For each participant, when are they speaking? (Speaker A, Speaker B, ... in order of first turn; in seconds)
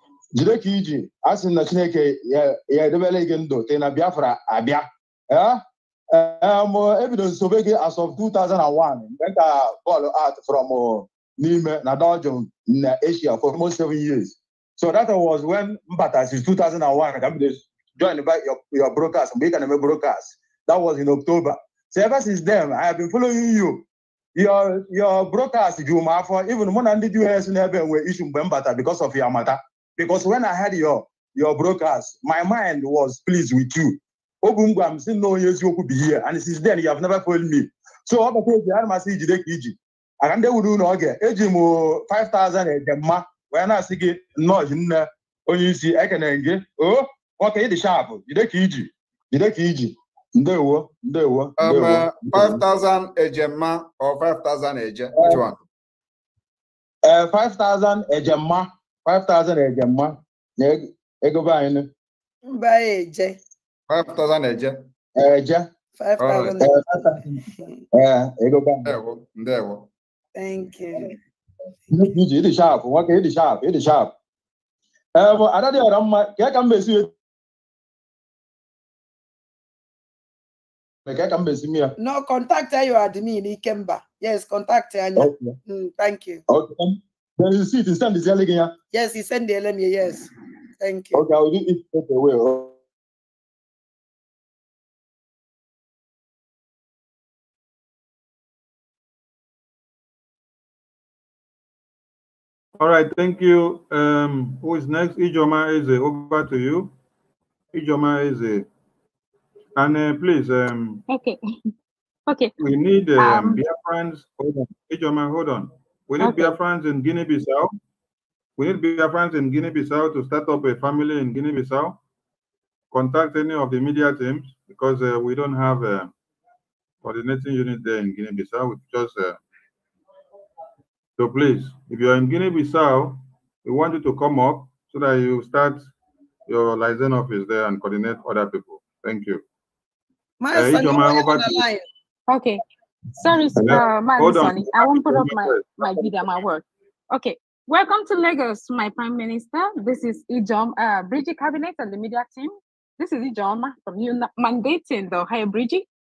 Speaker A: 0.3-23.8, 24.4-52.6, 55.2-55.4, 57.1-61.9, 65.2-65.7, 66.6-67.4, 67.9-68.9, 71.9-74.1, 75.2-77.1, 81.1-81.9, 85.2-85.6, 86.5-88.7, 91.1-92.8
Speaker B: 51.6-55.6, 63.9-64.9, 66.2-66.6, 68.8-69.9
Speaker C: 62.5-63.4, 66.0-66.8, 67.5-67.8, 70.3-71.1, 82.0-86.4, 88.9-91.2, 140.4-141.8
Speaker D: 102.8-106.9, 107.7-108.7, 109.8-111.0, 112.6-117.7, 118.6-122.0, 122.9-126.1, 127.0-129.4, 131.2-135.9, 136.5-139.4, 140.5-141.7, 143.6-145.7
Speaker E: 111.1-111.4, 112.3-112.5, 113.2-113.6, 116.2-116.6, 142.3-142.6, 143.2-155.8